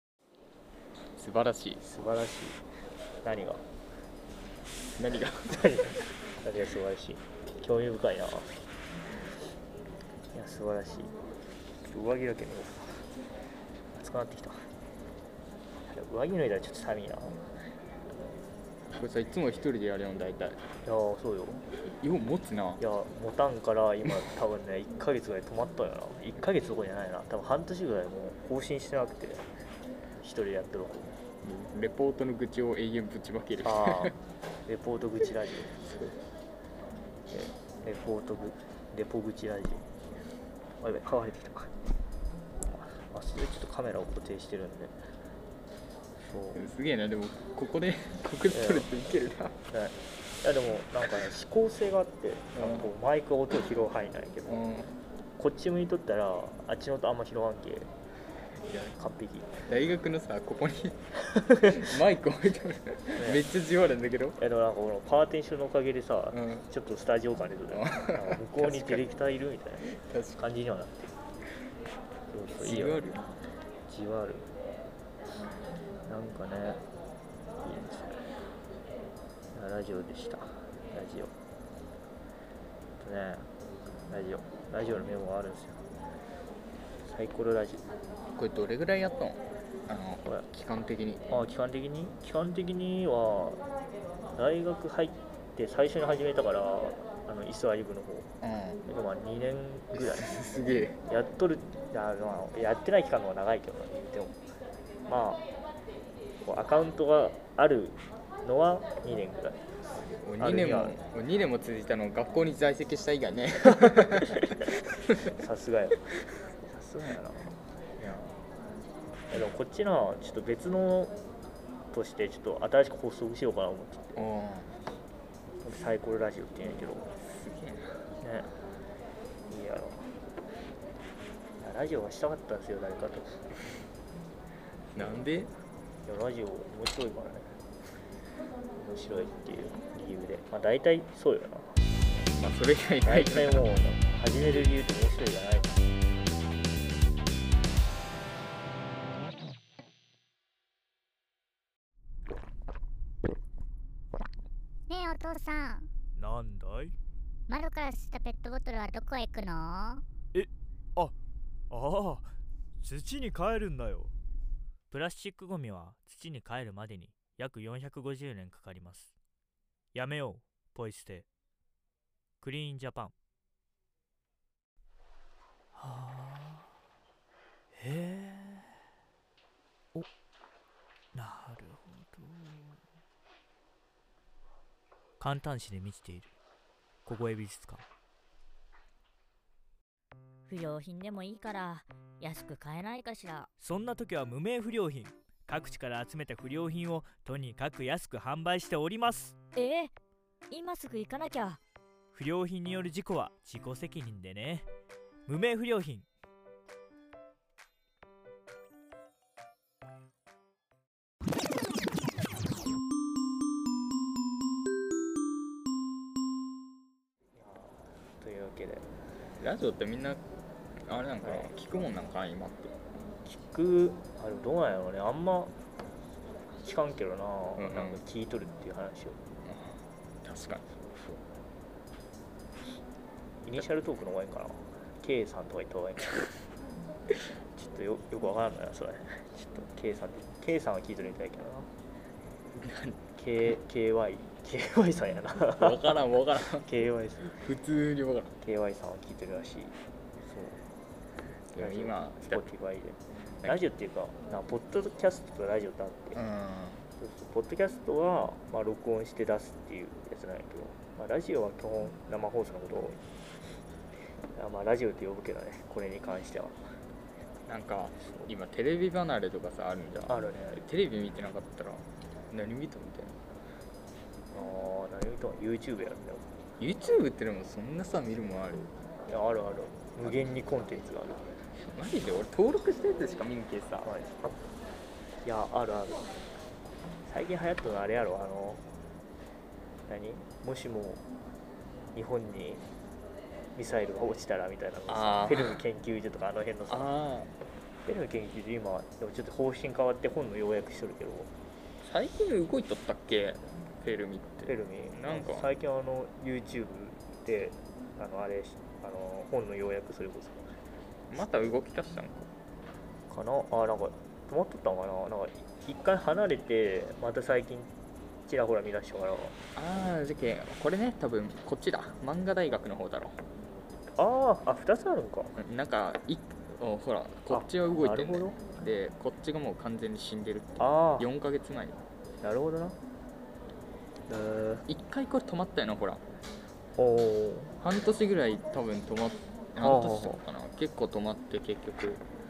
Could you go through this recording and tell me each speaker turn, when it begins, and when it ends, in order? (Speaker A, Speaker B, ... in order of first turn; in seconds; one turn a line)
Speaker A: 1.2-1.9
Speaker B: 1.8-2.6
Speaker B: 3.2-3.6
Speaker A: 5.0-5.9
Speaker B: 5.5-8.5
Speaker B: 10.3-11.1
Speaker B: 11.8-13.1
Speaker B: 13.9-14.7
Speaker B: 15.8-17.4
Speaker A: 18.9-20.6
Speaker B: 20.8-21.6
Speaker A: 21.9-22.8
Speaker B: 22.8-29.5
Speaker B: 30.2-31.2
Speaker A: 31.4-34.2
Speaker B: 33.6-35.8
Speaker A: 35.9-36.1
Speaker B: 37.3-39.9
Speaker B: 40.8-41.7
Speaker B: 42.6-45.0
Speaker B: 46.3-46.6
Speaker A: 46.5-49.6
Speaker B: 48.5-48.9
Speaker B: 49.7-54.6
Speaker A: 52.6-52.9
Speaker A: 54.5-54.9
Speaker B: 55.4-57.9
Speaker B: 58.7-59.6
Speaker A: 59.7-61.0
Speaker B: 61.3-61.8
Speaker A: 61.5-64.4
Speaker B: 63.2-63.4
Speaker B: 64.4-71.2
Speaker A: 66.3-66.6
Speaker A: 67.7-69.1
Speaker A: 70.0-70.4
Speaker B: 72.3-73.0
Speaker A: 72.5-73.3
Speaker B: 73.9-74.5
Speaker B: 76.1-76.8
Speaker B: 77.6-78.2
Speaker B: 79.5-81.3
Speaker B: 83.0-83.5
Speaker B: 84.1-85.8
Speaker B: 87.0-87.8
Speaker A: 88.4-91.2
Speaker B: 91.3-93.6
Speaker B: 94.3-98.3
Speaker A: 98.4-98.8
Speaker B: 98.9-100.4
Speaker A: 100.0-101.0
Speaker B: 101.0-104.4
Speaker B: 105.1-105.4
Speaker B: 106.4-109.6
Speaker A: 110.2-115.1
Speaker B: 110.4-111.0
Speaker B: 113.8-114.7
Speaker B: 115.3-118.4
Speaker B: 119.3-121.2
Speaker B: 121.9-124.2
Speaker A: 124.2-124.7
Speaker B: 125.6-127.1
Speaker A: 127.2-128.0
Speaker B: 128.2-128.5
Speaker B: 129.5-130.1
Speaker B: 131.6-133.5
Speaker A: 134.9-135.5
Speaker B: 136.1-137.5
Speaker B: 138.7-141.8
Speaker A: 142.3-143.6
Speaker B: 143.1-145.9
Speaker C: 154.9-155.9
Speaker D: 156.2-157.0
Speaker C: 157.5-160.0
Speaker D: 160.3-161.2
Speaker D: 161.7-164.1
Speaker D: 164.9-169.1
Speaker D: 169.9-171.3
Speaker D: 172.4-173.1
Speaker D: 175.8-176.7
Speaker D: 177.8-178.7
Speaker D: 181.1-182.8
Speaker D: 185.2-186.3
Speaker D: 187.1-187.8
Speaker E: 190.5-193.5
Speaker D: 193.6-199.4
Speaker E: 199.3-199.9
Speaker E: 200.5-201.6
Speaker D: 202.1-204.7
Speaker D: 205.3-206.1
Speaker B: 217.3-218.9
Speaker A: 219.4-220.2
Speaker A: 220.8-222.8
Speaker B: 221.2-221.6
Speaker B: 223.2-225.6
Speaker B: 226.6-229.2
Speaker A: 227.6-228.0
Speaker A: 229.4-231.2
Speaker B: 233.4-236.3
Speaker B: 237.6-241.7
Speaker A: 242.6-243.0
Speaker B: 243.2-247.4
Speaker A: 245.5-246.7
Speaker A: 247.3-248.3
Speaker B: 248.4-250.6
Speaker A: 251.5-252.4
Speaker B: 251.6-256.2
Speaker A: 256.1-256.9
Speaker B: 257.0-263.0
Speaker B: 264.3-266.6
Speaker A: 267.5-273.2
Speaker B: 270.1-270.6
Speaker B: 274.3-276.3
Speaker A: 276.6-278.7
Speaker B: 279.1-281.3
Speaker A: 281.7-283.9
Speaker B: 283.8-284.1
Speaker B: 285.2-286.1
Speaker B: 287.1-288.6
Speaker B: 289.9-291.0
Speaker B: 291.9-292.7
Speaker B: 293.6-296.9
Speaker A: 294.9-295.6
Speaker A: 296.7-297.3
Speaker B: 297.9-301.3
Speaker A: 301.8-305.5
Speaker B: 304.5-310.5
Speaker A: 311.1-312.3
Speaker B: 311.2-311.5
Speaker B: 313.1-317.7
Speaker B: 318.3-319.4
Speaker A: 319.6-323.2
Speaker B: 324.0-325.4
Speaker A: 325.4-331.8
Speaker B: 327.3-328.4
Speaker B: 330.6-331.1
Speaker B: 332.2-332.8
Speaker B: 334.1-334.6
Speaker A: 334.7-336.0
Speaker B: 336.8-337.6
Speaker A: 337.6-342.0
Speaker B: 339.6-340.2